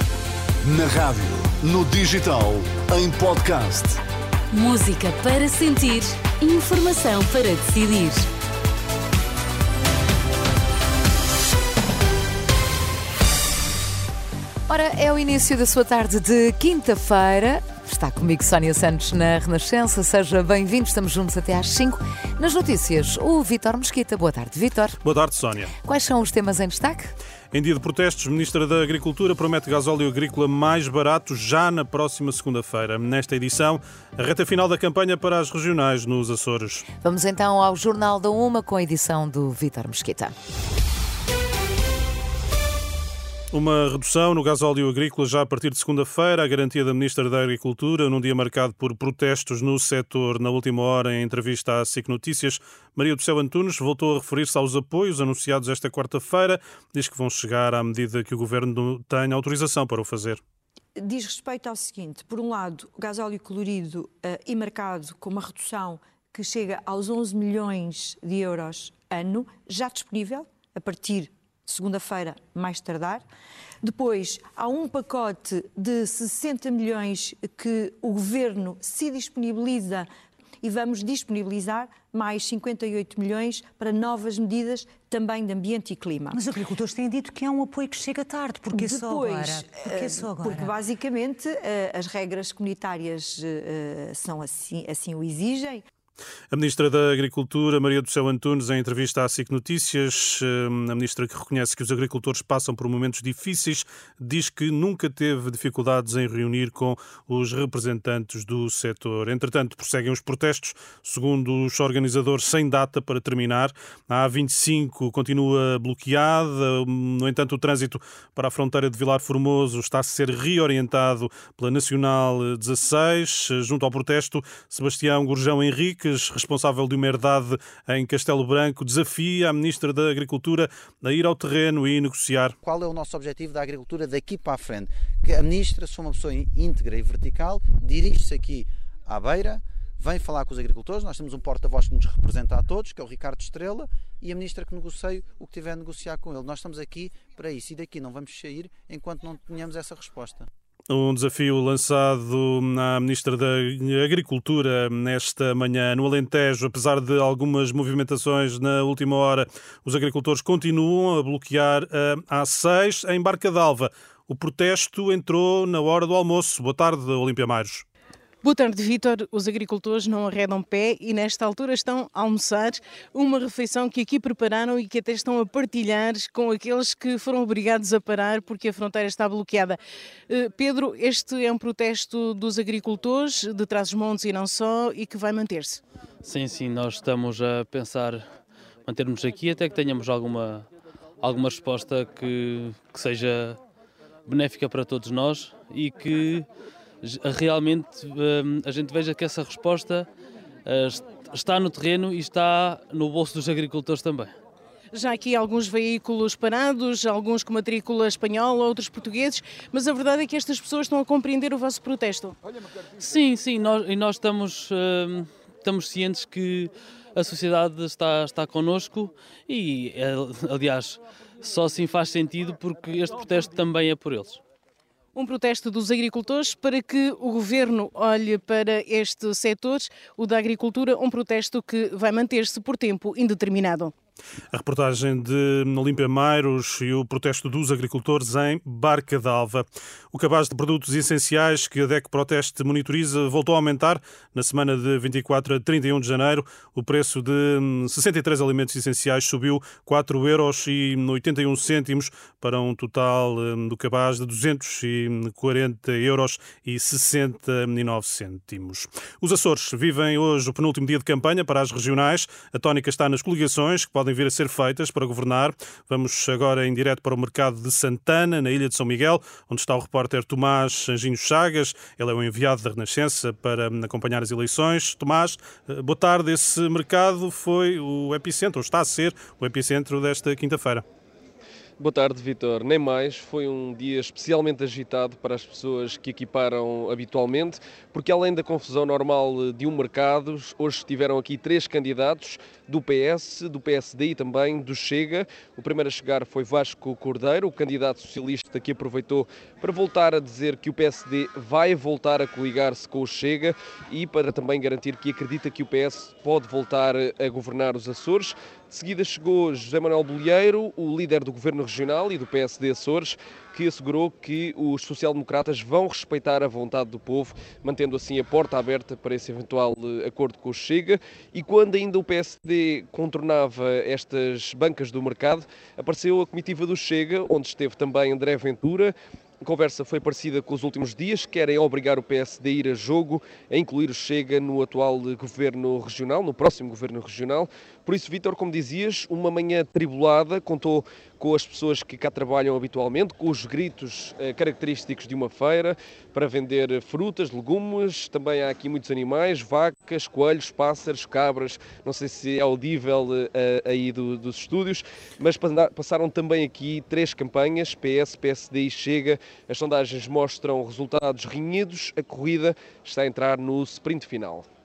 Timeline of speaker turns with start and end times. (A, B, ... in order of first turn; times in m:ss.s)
0:00.6-0:04.0 A
0:04.6-0:08.2 B
0:14.7-0:25.0 C
0:25.0-0:25.7 D
0:25.8-0:27.1 C
0:27.5-0:36.9 D
0:37.0-0:40.3 C
0:43.5-1:00.4 D
1:01.0-1:13.2 E
1:13.8-1:20.1 E
1:20.6-1:26.4 E
1:26.3-1:30.7 F
1:28.7-1:35.8 E
1:36.5-2:12.6 D
2:12.6-2:30.5 G
2:30.9-2:47.8 D
2:48.4-2:59.8 H
3:00.3-3:05.8 H
3:06.2-3:08.2 I
3:08.9-3:10.7 I
3:11.2-3:13.6 I
3:14.3-3:16.5 I
3:17.0-3:20.1 I
3:20.6-3:24.3 I
3:24.9-3:32.4 H
3:33.0-3:44.4 I
3:45.2-3:53.9 H
3:54.5-4:40.8 D
4:41.8-6:04.5 J